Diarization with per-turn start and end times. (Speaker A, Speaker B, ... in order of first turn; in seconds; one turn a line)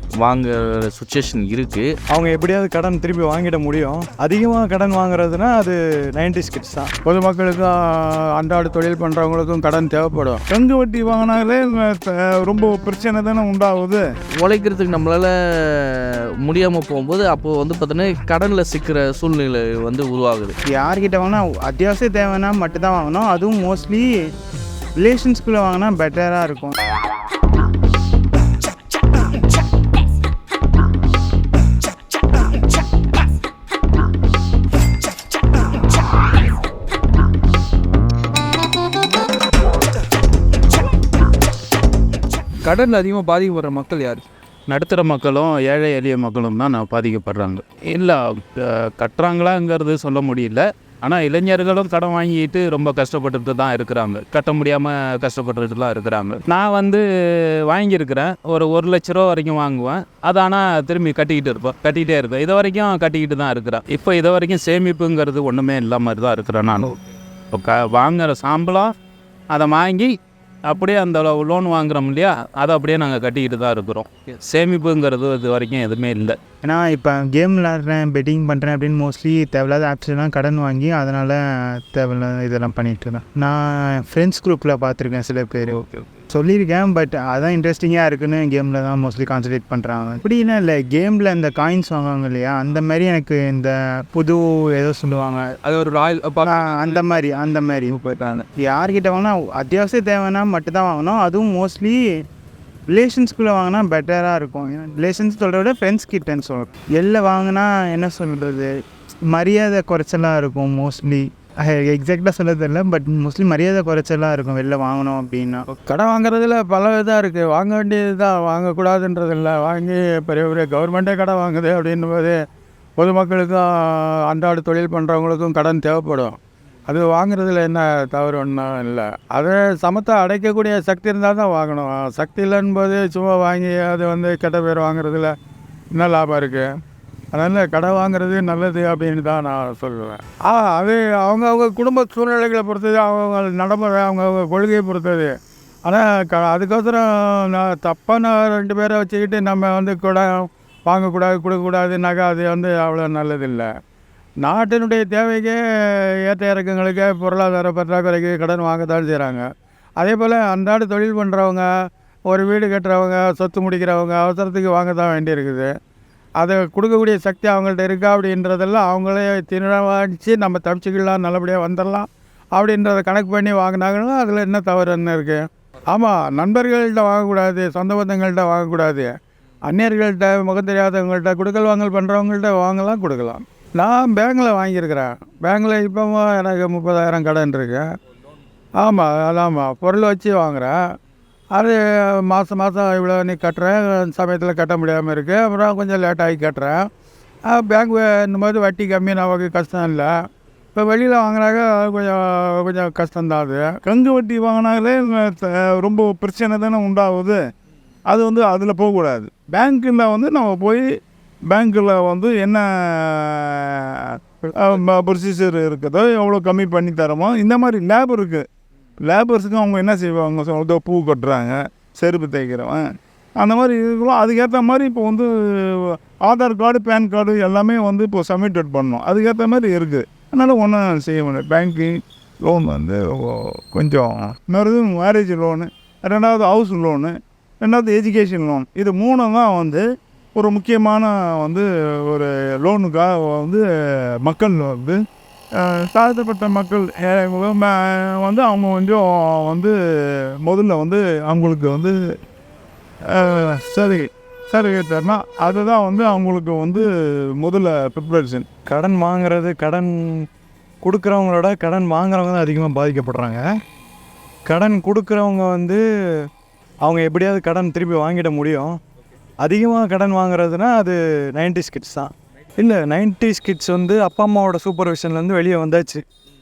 Speaker A: 0.2-1.9
Speaker B: 2.1-6.9
Speaker C: 7.0-10.4
Speaker D: 10.5-14.0
Speaker A: 14.4-20.5
Speaker E: 20.7-24.1
Speaker E: 25.0-26.8
Speaker F: 42.6-44.2
Speaker G: 44.7-57.0
Speaker G: 57.7-67.0
Speaker G: 67.5-68.9
Speaker G: 69.5-70.1
Speaker G: 70.7-76.4
Speaker E: 76.6-95.5
Speaker F: 85.8-86.1
Speaker F: 95.6-96.9
Speaker E: 96.4-98.0
Speaker F: 97.9-98.5
Speaker E: 98.6-102.2
Speaker E: 102.9-108.7
Speaker E: 109.3-115.7
Speaker C: 115.9-122.4
Speaker C: 123.0-135.3
Speaker C: 135.9-136.7
Speaker C: 137.3-145.3
Speaker C: 145.8-153.7
Speaker C: 154.4-159.5
Speaker C: 160.0-161.7
Speaker C: 162.3-165.7
Speaker C: 166.4-179.1
Speaker C: 179.6-187.8
Speaker C: 188.8-190.8
Speaker C: 191.5-196.9
Speaker C: 197.5-200.1
Speaker C: 200.7-203.7
Speaker D: 203.8-207.4
Speaker D: 208.1-210.8
Speaker D: 211.5-218.4
Speaker D: 219.0-222.8
Speaker D: 223.4-239.8
Speaker D: 240.3-243.6
Speaker D: 244.2-245.0
Speaker D: 245.6-249.7
Speaker D: 250.4-251.9
Speaker D: 253.1-256.9
Speaker D: 257.4-258.4
Speaker B: 258.7-260.2
Speaker B: 260.8-263.4
Speaker B: 264.5-265.8
Speaker B: 266.8-268.7
Speaker B: 269.4-276.0